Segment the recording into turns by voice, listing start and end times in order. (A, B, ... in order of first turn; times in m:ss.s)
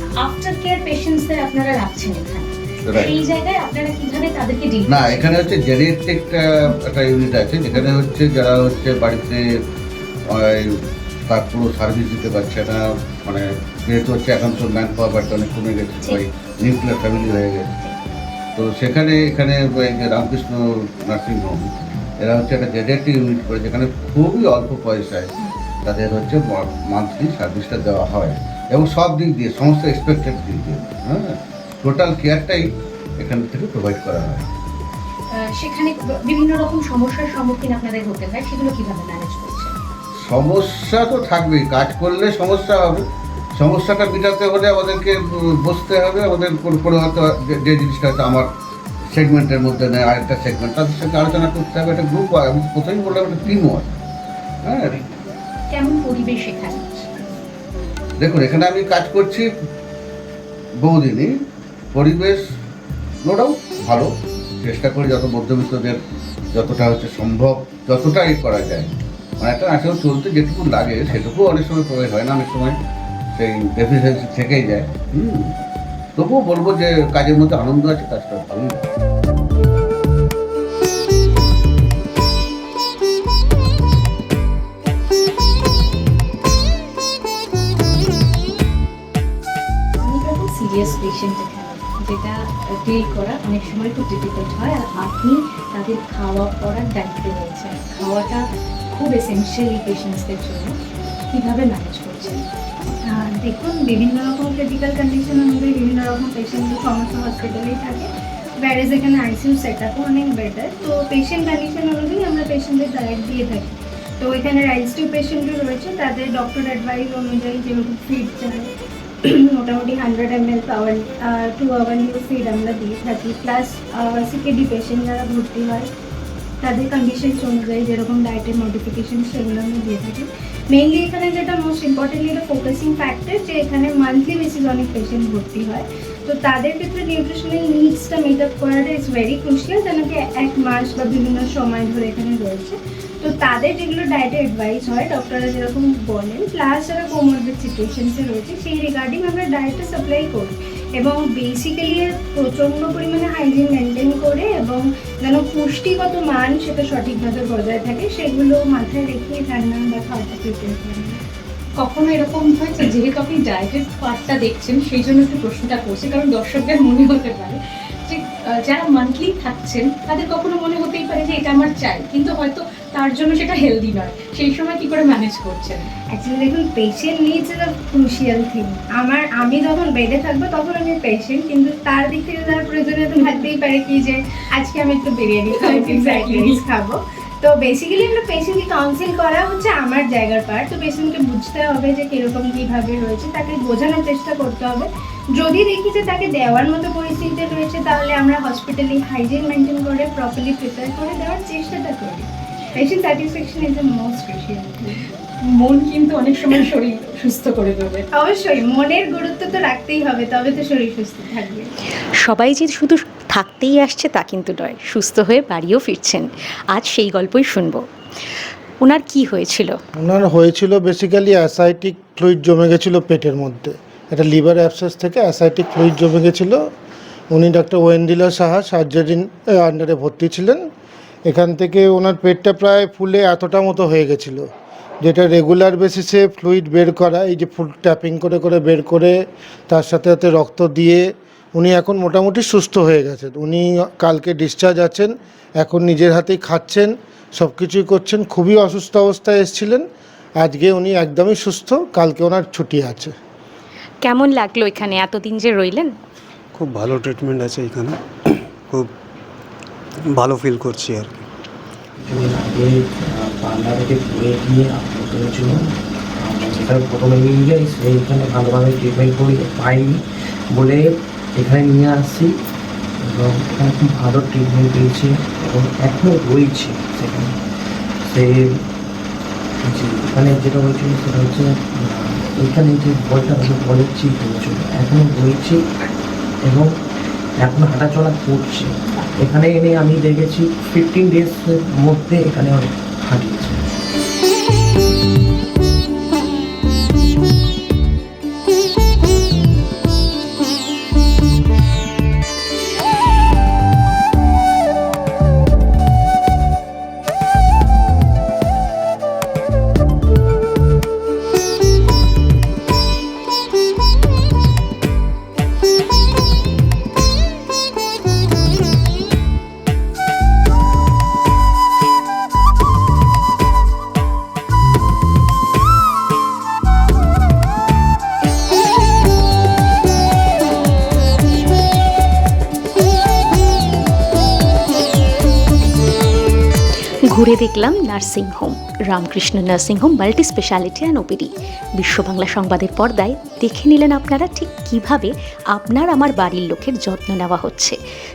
0:00.2-0:05.3 A
0:02.8-0:03.2 B
0:04.9-0:09.4 B
0:10.3-0:17.7 B
0:18.6-0:25.3 B
0:25.8-0:32.6 B
0:33.2-0:34.5 B
0:35.3-0:39.8 A
0:40.3-0:48.5 B
0:49.1-0:53.9 B
0:54.6-0:55.0 B
0:55.7-0:57.3 A
0:58.2-0:59.4 B
1:00.8-1:01.3 B
1:01.9-1:02.4 B
1:03.2-1:06.0 B
1:06.5-1:12.8 B
1:13.3-1:15.6 B
1:16.2-1:18.8 B
1:30.0-1:40.8 A
1:41.3-1:42.4 A
1:43.0-1:48.1 C
1:48.6-1:58.7 C
1:59.2-2:05.9 C
2:06.6-2:41.2 C
2:41.8-2:55.9 A
2:56.1-3:25.1 C
3:03.2-3:03.5 A
3:05.5-3:06.6 A
3:25.5-3:28.1 A
3:28.2-3:31.7 C
3:32.2-3:37.8 A
3:38.8-3:39.8 A
3:40.0-3:46.6 D
3:47.3-3:50.6 D
3:51.2-3:54.5 D
3:55.0-4:09.8 D
4:10.4-4:13.1 D
4:14.0-4:15.9 A
4:16.6-4:18.9 E
4:20.1-4:21.2 E
4:22.0-4:25.7 F
4:26.2-4:30.0 F
4:30.5-4:32.3 F
4:33.0-4:37.4 F
4:38.1-4:38.5 F
4:39.7-4:45.6 F
4:46.4-4:46.7 F
4:47.4-4:53.6 F
5:37.1-5:47.8 A